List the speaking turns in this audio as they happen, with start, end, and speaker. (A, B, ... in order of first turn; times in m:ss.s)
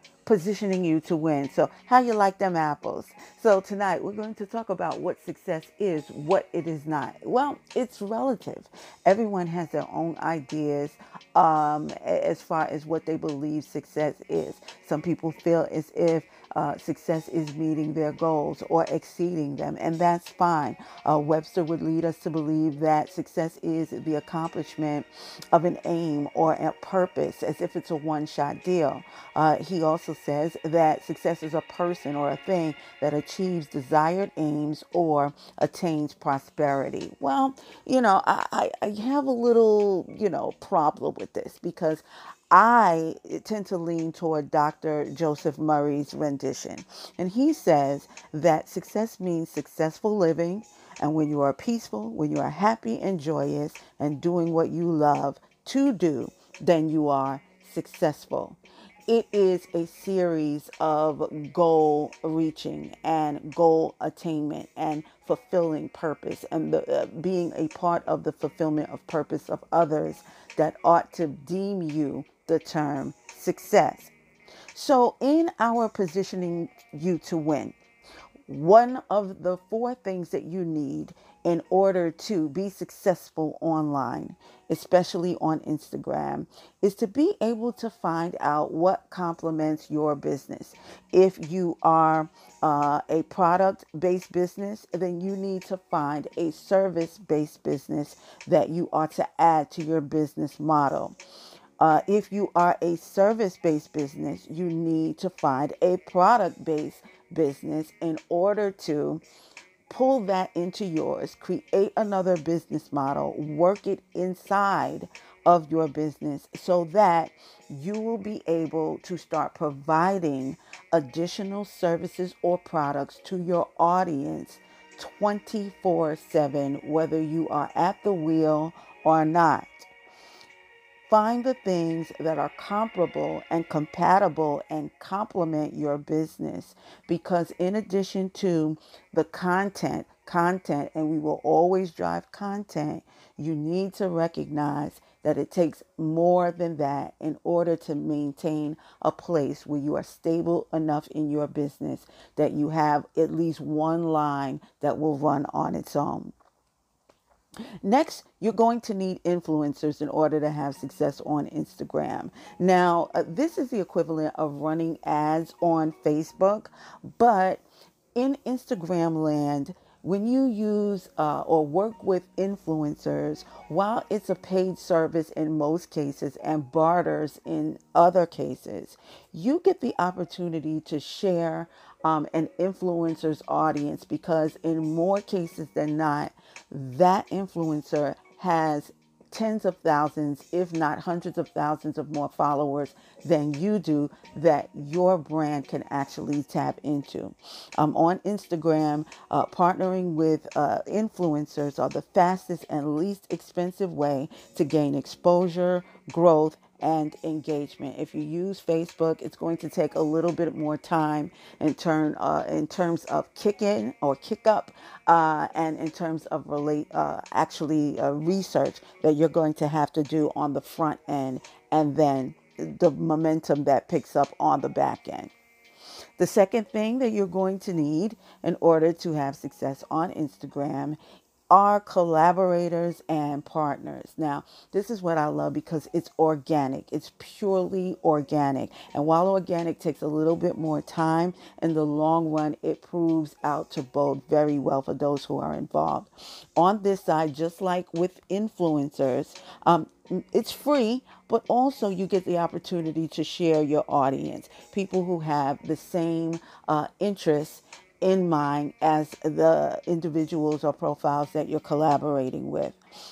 0:00.2-1:14.1 A
1:14.7-1:17.8 A
1:18.5-1:41.2 A
1:41.8-1:49.2 A
1:49.9-2:09.9 A
2:11.1-2:36.3 A
2:37.8-2:47.6 A
2:48.2-3:45.3 A
3:46.2-3:51.0 A
3:51.5-4:22.8 A